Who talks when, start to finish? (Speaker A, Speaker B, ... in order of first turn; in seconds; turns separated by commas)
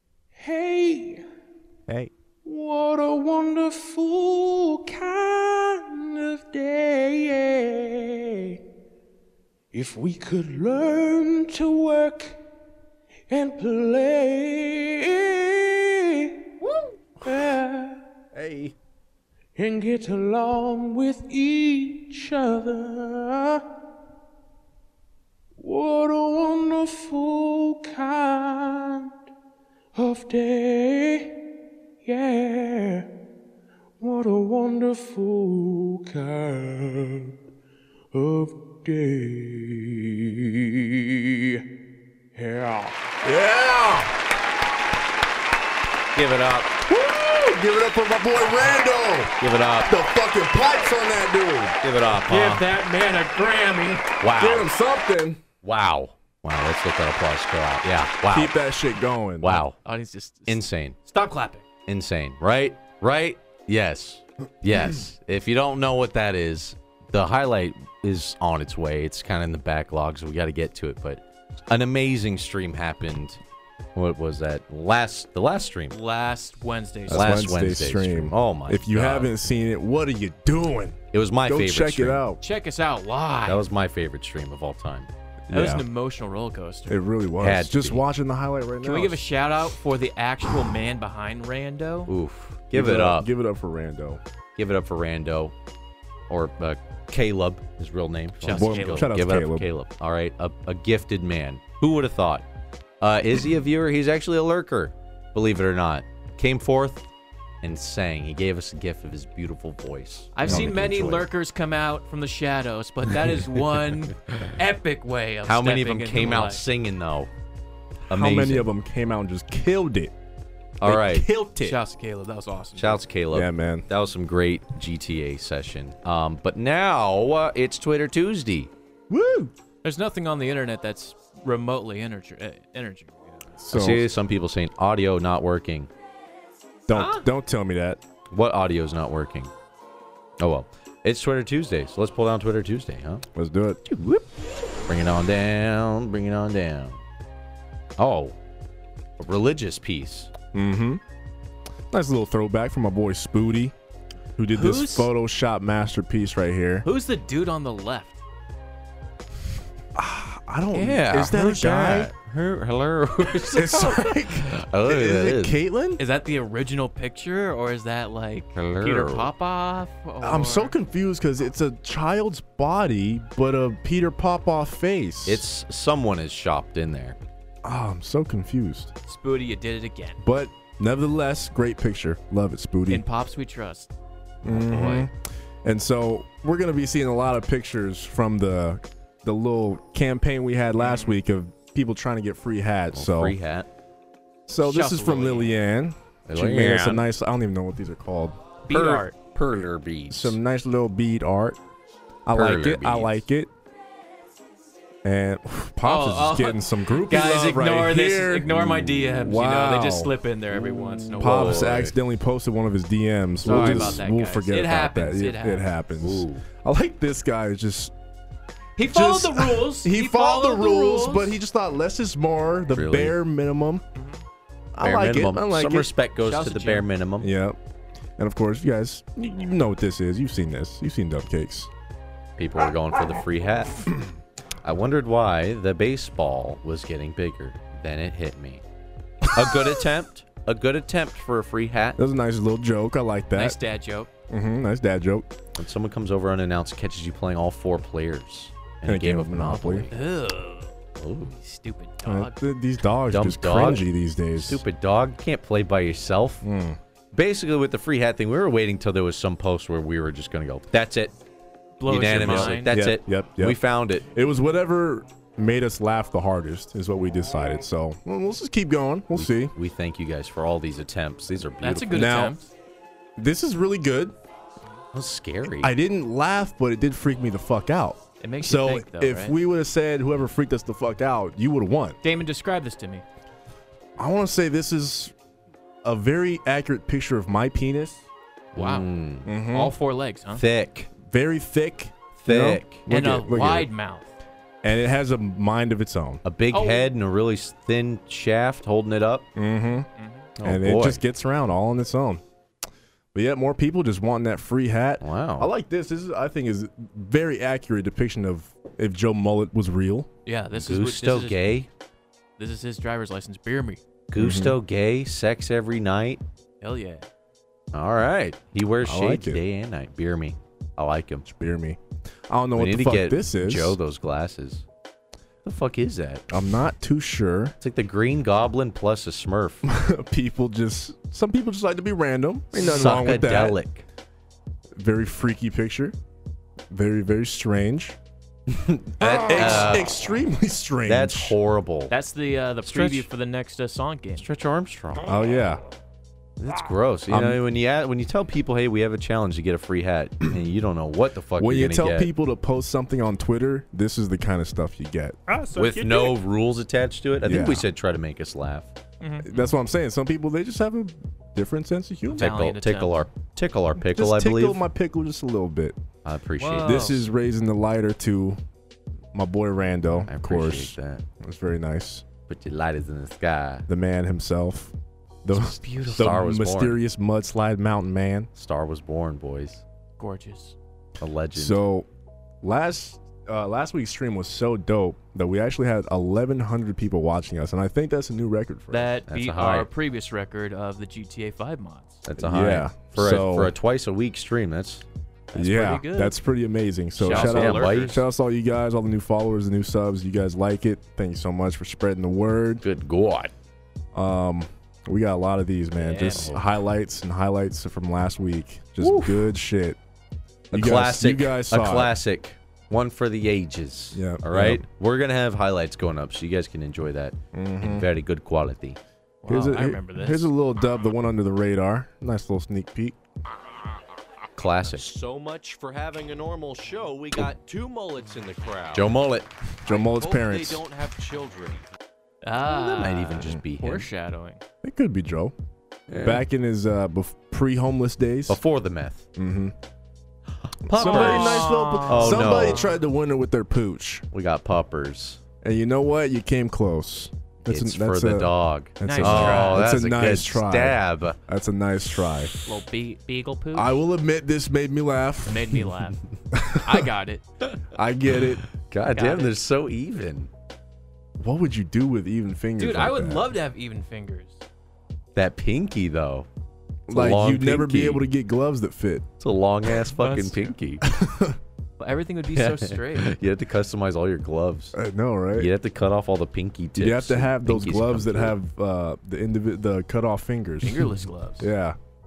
Speaker A: 0.3-1.2, Speaker A: 2.4-8.6, Speaker A: 9.7-12.4, Speaker A: 13.3-16.4, Speaker A: 17.2-18.0, Speaker B: 18.3-18.7, Speaker A: 19.5-23.6, Speaker A: 25.6-29.1, Speaker A: 29.9-31.4, Speaker A: 32.0-33.1, Speaker A: 34.0-37.3, Speaker A: 38.1-41.6, Speaker A: 42.3-43.0, Speaker C: 43.2-44.1, Speaker B: 46.1-46.7, Speaker C: 46.8-51.8, Speaker B: 49.4-49.9, Speaker B: 51.8-52.6, Speaker D: 52.3-54.1, Speaker B: 54.2-54.7, Speaker C: 54.4-55.4, Speaker B: 55.6-58.5, Speaker C: 58.3-59.6, Speaker B: 59.4-59.7, Speaker D: 59.5-61.6, Speaker B: 60.5-61.0, Speaker B: 61.9-73.4, Speaker B: 73.9-76.0, Speaker D: 75.9-77.3, Speaker C: 77.1-82.4, Speaker B: 77.1-79.3, Speaker B: 81.1-82.2, Speaker D: 82.4-83.6, Speaker B: 83.4-85.1, Speaker C: 85.5-85.8, Speaker D: 85.5-87.0, Speaker C: 86.9-89.2, Speaker B: 87.4-88.0, Speaker D: 88.8-92.1, Speaker B: 92.1-93.3, Speaker C: 92.7-94.2, Speaker B: 94.5-95.5, Speaker B: 96.3-102.4, Speaker D: 98.4-99.1, Speaker C: 98.5-99.7, Speaker B: 103.0-107.1, Speaker B: 107.6-111.3, Speaker D: 110.3-116.6, Speaker C: 110.4-110.7, Speaker B: 115.4-117.3, Speaker B: 118.1-118.7, Speaker C: 118.1-120.1, Speaker B: 120.8-121.3, Speaker C: 120.8-121.8, Speaker D: 121.5-123.0, Speaker B: 122.8-128.7, Speaker C: 123.3-123.8, Speaker C: 129.1-129.5, Speaker D: 129.8-133.4, Speaker C: 133.6-134.1, Speaker B: 133.7-135.9, Speaker C: 136.9-138.0, Speaker D: 136.9-137.2, Speaker B: 138.3-139.5, Speaker B: 140.4-143.2, Speaker C: 143.3-143.8, Speaker B: 143.8-144.3, Speaker B: 144.8-147.0, Speaker B: 148.0-148.3, Speaker B: 149.2-150.3, Speaker C: 150.5-151.0, Speaker C: 151.9-153.7, Speaker C: 154.4-156.9, Speaker D: 154.5-155.1, Speaker D: 156.8-158.2, Speaker C: 159.9-162.1, Speaker B: 160.7-165.6, Speaker C: 163.5-166.0, Speaker D: 166.0-170.7, Speaker B: 168.5-169.3, Speaker C: 170.2-175.4, Speaker B: 175.2-177.2, Speaker C: 177.6-178.9, Speaker D: 179.1-180.2, Speaker C: 180.2-183.0, Speaker D: 182.9-183.9, Speaker B: 184.4-185.1, Speaker C: 184.4-193.3, Speaker D: 190.8-191.2, Speaker B: 192.9-193.7, Speaker C: 194.5-198.4, Speaker D: 194.6-195.6, Speaker B: 196.2-197.0, Speaker D: 198.6-199.1, Speaker B: 198.7-200.4, Speaker C: 200.1-201.6, Speaker C: 202.2-203.5, Speaker B: 202.3-203.2, Speaker C: 205.0-210.1, Speaker D: 205.8-211.7, Speaker B: 210.6-211.9, Speaker C: 211.2-217.9, Speaker D: 213.4-215.7, Speaker B: 213.4-214.0, Speaker B: 216.0-216.4, Speaker D: 218.8-221.3, Speaker C: 218.8-223.8, Speaker B: 222.7-223.2, Speaker C: 224.7-225.9, Speaker B: 224.8-227.3, Speaker D: 226.2-226.9, Speaker C: 227.2-227.6, Speaker C: 228.2-231.7, Speaker B: 232.4-233.9, Speaker B: 234.6-238.6, Speaker B: 239.3-242.0, Speaker C: 242.0-243.6, Speaker D: 243.3-244.1, Speaker C: 244.3-245.3, Speaker B: 245.6-250.0, Speaker C: 248.8-249.9, Speaker D: 249.9-250.7, Speaker B: 251.0-251.3, Speaker D: 251.3-252.3, Speaker C: 252.0-254.6, Speaker B: 253.1-256.4, Speaker C: 256.4-256.8, Speaker B: 257.1-261.1, Speaker D: 261.8-262.7, Speaker B: 261.9-264.0, Speaker C: 262.2-269.5, Speaker B: 269.1-272.2, Speaker D: 271.6-272.5, Speaker C: 271.9-272.4, Speaker C: 273.2-274.1, Speaker B: 274.9-275.7, Speaker C: 275.6-282.0, Speaker D: 278.2-279.4, Speaker D: 282.0-283.0, Speaker C: 284.0-285.1, Speaker C: 285.8-288.1, Speaker B: 288.5-289.3, Speaker D: 288.5-290.4, Speaker C: 289.2-289.7, Speaker B: 290.3-290.9, Speaker C: 291.1-293.7, Speaker B: 292.2-292.8, Speaker D: 292.9-294.1, Speaker C: 294.6-296.2, Speaker B: 296.2-299.2, Speaker D: 296.5-296.9, Speaker C: 299.4-299.9, Speaker D: 300.0-300.3, Speaker B: 300.4-301.0, Speaker C: 300.4-302.2, Speaker C: 303.1-310.1, Speaker B: 305.0-305.5, Speaker D: 310.2-311.5, Speaker B: 310.5-311.7, Speaker D: 312.4-313.8, Speaker B: 314.1-316.2, Speaker C: 314.2-314.6, Speaker D: 316.6-317.0, Speaker B: 317.7-321.2, Speaker C: 318.8-319.4, Speaker C: 321.2-323.8, Speaker B: 322.6-324.6, Speaker B: 325.4-326.2, Speaker C: 326.3-327.5, Speaker B: 327.6-329.6, Speaker C: 329.6-333.6, Speaker B: 332.5-333.8, Speaker C: 334.8-335.9, Speaker C: 336.7-338.0, Speaker B: 338.5-340.0, Speaker C: 339.0-341.4, Speaker B: 340.9-341.9, Speaker D: 341.9-344.2, Speaker B: 342.6-343.1, Speaker B: 344.1-345.1, Speaker C: 345.0-345.6, Speaker B: 346.4-352.1, Speaker C: 347.1-347.4, Speaker C: 351.4-355.2, Speaker D: 355.3-355.8, Speaker B: 355.5-358.7, Speaker C: 357.2-357.7, Speaker D: 359.0-359.5, Speaker C: 359.2-362.3, Speaker D: 362.1-363.1, Speaker B: 362.2-364.6, Speaker C: 363.8-365.8, Speaker B: 366.0-367.0, Speaker D: 366.4-367.0, Speaker C: 366.6-368.4, Speaker C: 369.1-372.0, Speaker B: 370.1-371.0, Speaker B: 372.3-373.7, Speaker C: 373.7-378.3, Speaker B: 375.3-376.8, Speaker D: 375.6-376.1, Speaker B: 378.3-379.6, Speaker D: 380.0-380.6, Speaker B: 381.0-381.6, Speaker C: 381.3-381.9, Speaker C: 382.4-389.0, Speaker D: 388.7-392.0, Speaker B: 389.1-389.7, Speaker B: 392.0-394.8, Speaker C: 392.2-393.5, Speaker D: 395.3-396.2, Speaker C: 395.3-402.6, Speaker D: 397.0-397.8, Speaker B: 397.0-398.0, Speaker B: 402.6-403.3, Speaker C: 403.9-409.8, Speaker D: 405.8-406.4, Speaker B: 406.1-406.4, Speaker B: 408.8-409.3, Speaker B: 410.5-418.8, Speaker C: 410.5-411.9, Speaker C: 413.9-414.6, Speaker C: 417.3-417.9, Speaker D: 419.2-420.3, Speaker C: 419.3-423.0, Speaker B: 424.4-424.8, Speaker E: 424.7-429.0, Speaker B: 428.7-429.3, Speaker C: 429.6-430.6, Speaker E: 429.7-431.7, Speaker D: 432.2-434.4, Speaker B: 432.4-433.9, Speaker C: 434.6-435.3, Speaker B: 435.9-436.2, Speaker C: 436.0-438.4, Speaker B: 438.3-439.0, Speaker C: 439.1-439.5, Speaker B: 440.4-442.6, Speaker C: 440.6-444.1, Speaker D: 440.8-442.8, Speaker B: 444.1-445.2, Speaker C: 445.4-452.3, Speaker B: 447.5-451.2, Speaker D: 448.8-449.7, Speaker D: 452.4-453.8, Speaker C: 453.5-455.7, Speaker D: 455.2-456.0, Speaker C: 456.3-456.9, Speaker D: 456.6-457.2, Speaker C: 457.7-458.4, Speaker B: 458.1-460.3, Speaker D: 458.9-459.4, Speaker C: 461.2-463.3, Speaker D: 462.6-464.4, Speaker B: 465.1-466.3, Speaker C: 466.9-469.1, Speaker B: 466.9-468.1, Speaker B: 469.2-470.8, Speaker D: 470.0-470.5, Speaker C: 470.8-471.4, Speaker D: 471.8-473.1, Speaker B: 472.3-474.7, Speaker C: 474.7-475.5, Speaker B: 475.3-478.4, Speaker C: 476.8-481.8, Speaker D: 480.6-481.5